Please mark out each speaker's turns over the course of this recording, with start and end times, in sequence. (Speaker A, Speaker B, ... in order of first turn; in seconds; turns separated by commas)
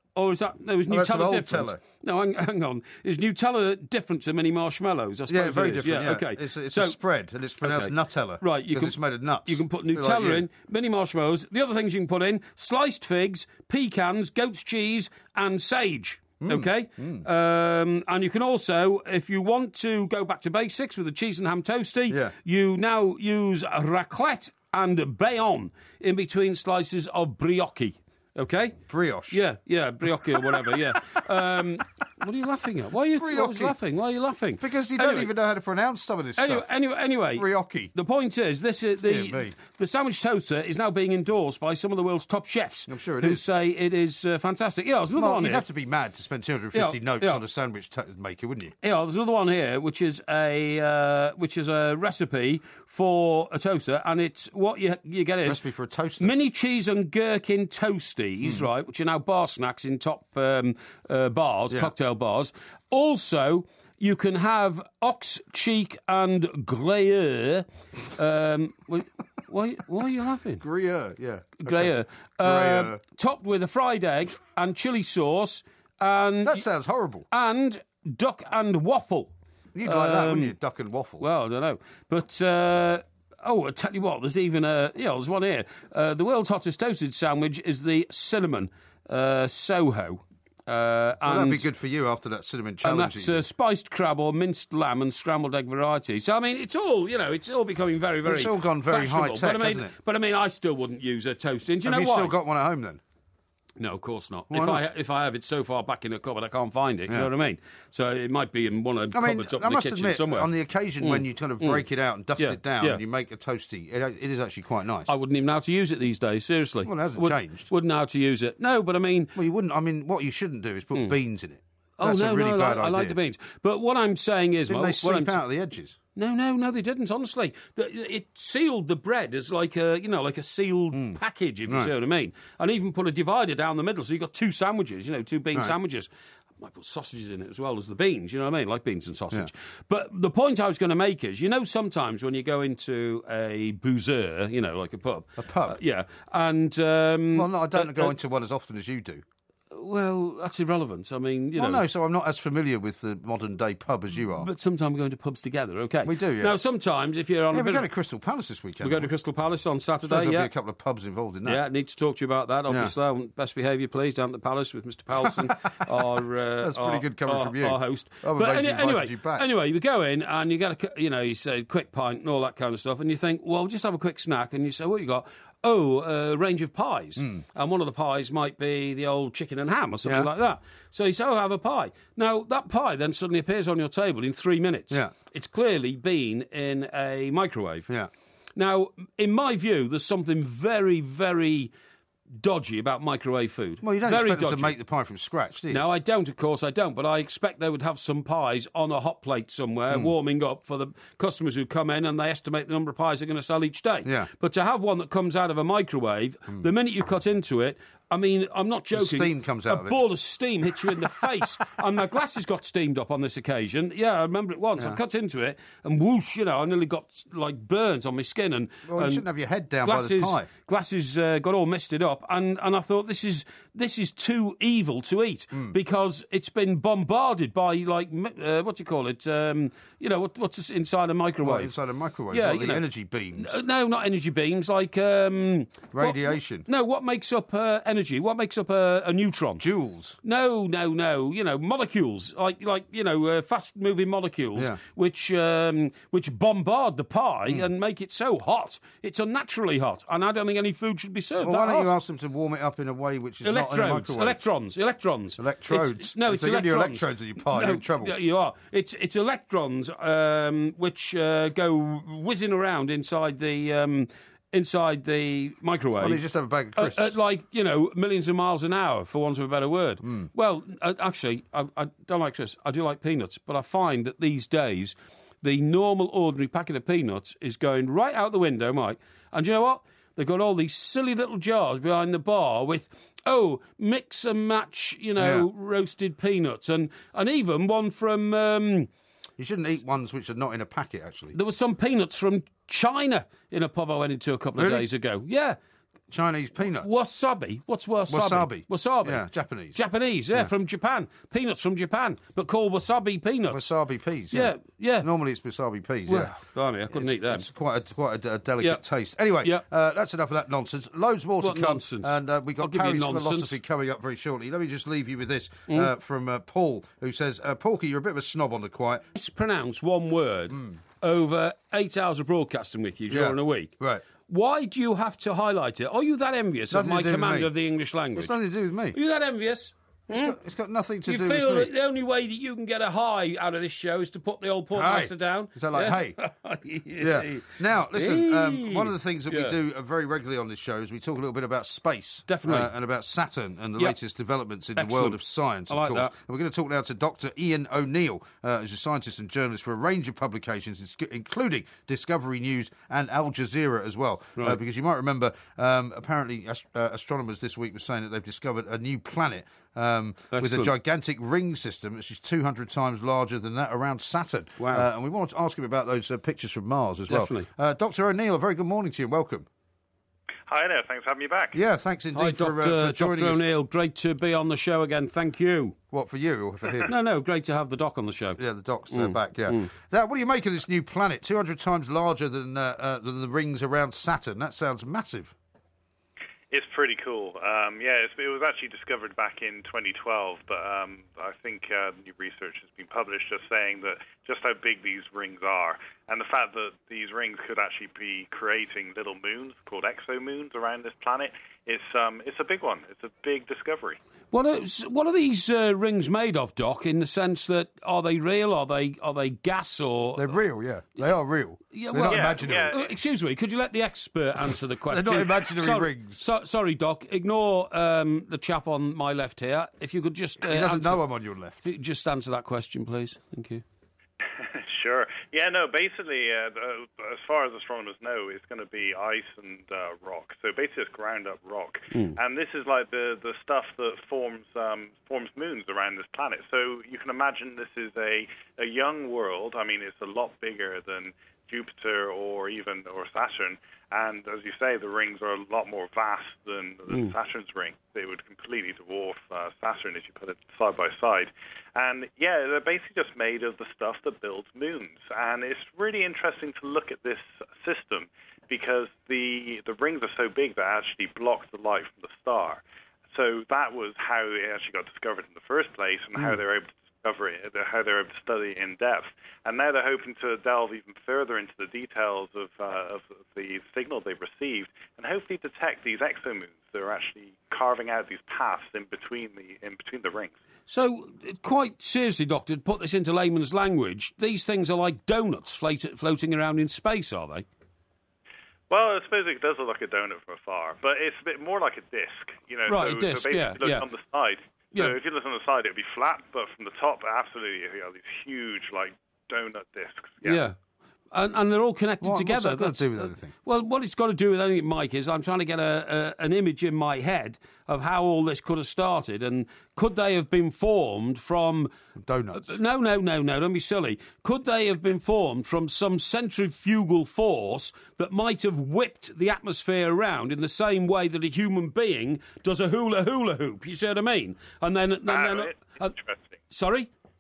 Speaker A: 0.1-7.0, Speaker B: 0.9-1.8, Speaker B: 5.3-10.5, Speaker A: 7.6-35.3, Speaker B: 16.4-17.2, Speaker B: 22.1-22.3, Speaker B: 28.9-29.4, Speaker B: 30.2-32.0, Speaker B: 33.2-33.8, Speaker B: 34.6-36.7, Speaker A: 36.4-45.6, Speaker B: 37.4-37.9, Speaker B: 39.1-39.5, Speaker B: 42.9-43.4, Speaker B: 45.2-48.7, Speaker A: 46.7-47.4, Speaker A: 48.8-55.6, Speaker B: 55.5-56.3, Speaker A: 56.2-70.6, Speaker B: 70.6-73.0, Speaker A: 71.6-76.7, Speaker B: 76.4-77.3, Speaker A: 77.3-79.3, Speaker B: 79.7-81.2, Speaker A: 79.8-80.5, Speaker A: 81.2-91.7, Speaker B: 91.3-93.4, Speaker A: 92.8-102.4, Speaker B: 98.2-99.9, Speaker B: 101.8-103.0, Speaker A: 103.8-110.5, Speaker B: 104.5-104.8, Speaker B: 109.1-115.1, Speaker A: 111.0-111.8, Speaker A: 112.4-113.0, Speaker A: 115.1-119.3, Speaker B: 116.8-117.7, Speaker B: 119.4-123.2, Speaker A: 122.0-125.4, Speaker B: 124.7-126.0, Speaker A: 126.2-148.1, Speaker B: 130.9-131.9, Speaker B: 145.4-145.8, Speaker B: 147.3-149.2, Speaker A: 149.7-151.8, Speaker B: 151.6-154.5, Speaker A: 154.4-157.9, Speaker B: 156.0-156.6, Speaker B: 157.5-159.1, Speaker A: 158.8-160.5, Speaker B: 160.0-161.6, Speaker A: 161.4-187.9, Speaker B: 165.2-166.1, Speaker B: 166.6-169.5, Speaker A: 188.6-191.7, Speaker A: 192.4-194.8, Speaker B: 193.8-195.8, Speaker A: 195.7-219.2, Speaker B: 208.9-210.0, Speaker B: 210.8-211.5, Speaker B: 218.9-220.5, Speaker A: 219.8-231.7, Speaker B: 231.4-233.6, Speaker A: 232.3-232.8, Speaker A: 233.4-239.6, Speaker B: 235.9-236.7, Speaker B: 239.6-240.2, Speaker A: 240.2-251.9, Speaker B: 251.4-254.4, Speaker A: 253.4-266.2, Speaker B: 255.4-258.2, Speaker B: 266.0-267.1, Speaker A: 266.8-288.9, Speaker B: 285.2-285.5, Speaker B: 289.4-291.4, Speaker A: 291.3-295.6, Speaker B: 294.6-294.9, Speaker B: 296.1-296.9, Speaker A: 296.6-303.7, Speaker B: 298.1-299.8, Speaker B: 303.5-306.3, Speaker A: 304.3-305.1, Speaker A: 306.1-307.5, Speaker B: 306.9-319.1, Speaker A: 311.4-313.6, Speaker A: 319.1-323.7, Speaker B: 320.5-320.8, Speaker B: 323.1-324.0, Speaker A: 324.3-328.3, Speaker B: 326.7-327.5, Speaker B: 328.1-329.0, Speaker A: 328.9-330.4, Speaker B: 330.1-331.7, Speaker A: 331.1-339.6, Speaker B: 334.7-336.2, Speaker B: 337.0-369.5, Speaker A: 342.3-342.7, Speaker A: 344.8-346.1, Speaker A: 360.3-360.7, Speaker A: 364.6-364.9, Speaker A: 367.1-367.5, Speaker C: 370.5-371.6, Speaker B: 371.5-373.4, Speaker A: 372.1-375.8, Speaker B: 375.9-376.9, Speaker A: 376.9-379.7, Speaker B: 378.4-385.3, Speaker C: 386.5-404.0, Speaker A: 404.3-410.4, Speaker B: 410.2-412.8, Speaker A: 411.7-421.0, Speaker C: 412.1-412.9, Speaker B: 414.9-416.2, Speaker B: 420.4-421.7, Speaker A: 421.6-423.6, Speaker C: 424.3-462.6, Speaker A: 431.9-432.2, Speaker C: 463.1-480.3, Speaker A: 480.7-487.5, Speaker C: 488.7-500.4, Speaker A: 492.7-493.8, Speaker A: 500.2-500.6, Speaker A: 501.1-511.7, Speaker B: 502.0-503.3, Speaker B: 512.0-512.5, Speaker A: 512.3-526.0, Speaker C: 525.1-526.2, Speaker A: 526.5-526.9